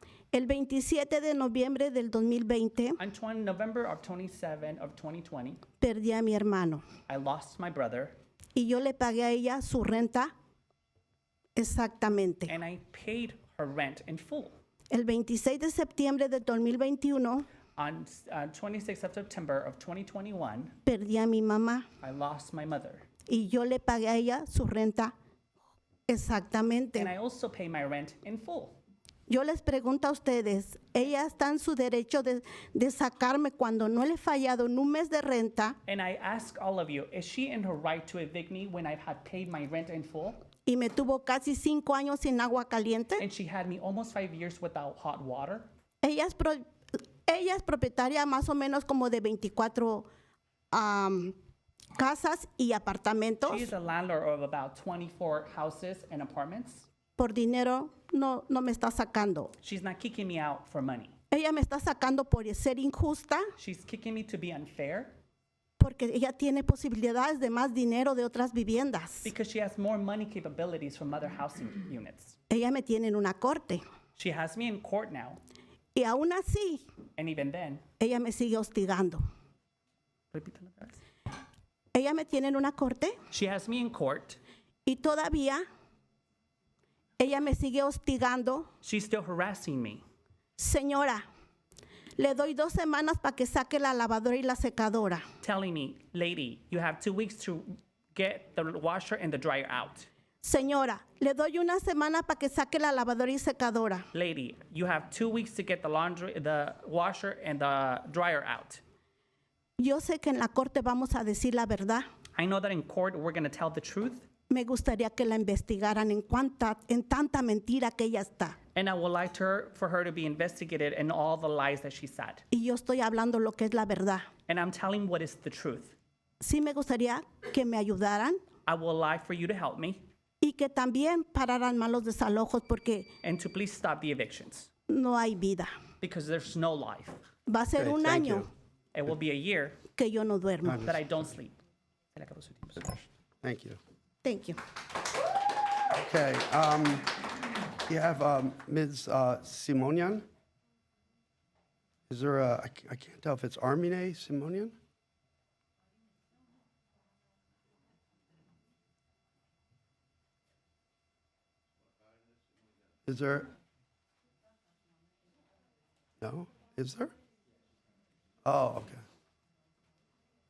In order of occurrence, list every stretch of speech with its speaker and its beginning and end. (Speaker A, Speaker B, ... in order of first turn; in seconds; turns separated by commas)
Speaker A: 0.3-3.0, Speaker B: 3.0-5.6, Speaker A: 5.8-6.8, Speaker B: 7.1-8.1, Speaker A: 8.5-10.3, Speaker A: 11.6-12.5, Speaker B: 12.5-14.5, Speaker A: 14.9-17.5, Speaker B: 17.8-20.7, Speaker A: 20.9-21.9, Speaker B: 22.0-23.1, Speaker A: 23.3-25.1, Speaker A: 26.1-27.1, Speaker B: 27.0-28.8, Speaker A: 29.3-35.8, Speaker B: 35.9-40.4, Speaker A: 40.7-43.2, Speaker B: 43.2-45.7, Speaker A: 46.0-46.6, Speaker A: 47.3-50.1, Speaker A: 50.7-51.3, Speaker A: 52.0-53.7, Speaker B: 53.5-56.9, Speaker A: 57.2-59.5, Speaker B: 59.6-61.1, Speaker A: 61.3-63.5, Speaker B: 63.6-65.1, Speaker A: 65.8-69.3, Speaker B: 69.2-72.4, Speaker A: 72.5-73.8, Speaker B: 74.2-75.4, Speaker A: 75.9-76.8, Speaker B: 77.2-77.8, Speaker A: 78.0-79.2, Speaker B: 80.3-81.0, Speaker A: 81.9-83.2, Speaker B: 83.3-84.4, Speaker A: 84.8-85.6, Speaker A: 87.2-88.7, Speaker B: 88.8-90.0, Speaker A: 90.6-91.2, Speaker A: 92.2-95.2, Speaker B: 95.4-100.1, Speaker A: 100.4-104.1, Speaker B: 104.1-108.8, Speaker A: 109.8-112.0, Speaker B: 112.3-114.2, Speaker A: 114.5-118.5, Speaker B: 118.7-122.4, Speaker A: 122.5-124.2, Speaker B: 124.5-125.9, Speaker A: 126.4-128.4, Speaker B: 128.7-130.0, Speaker A: 130.4-133.1, Speaker B: 133.2-134.7, Speaker A: 134.9-135.7, Speaker B: 136.0-137.2, Speaker A: 137.5-138.5, Speaker C: 137.8-138.5, Speaker B: 138.9-139.8, Speaker A: 139.9-140.8, Speaker C: 140.6-141.0, Speaker B: 140.8-141.6, Speaker B: 142.1-143.1, Speaker C: 143.4-143.8, Speaker A: 144.2-144.6, Speaker C: 145.9-147.3, Speaker C: 147.9-150.2, Speaker C: 152.1-154.8, Speaker C: 163.1-163.5, Speaker C: 166.2-167.1, Speaker C: 168.4-169.0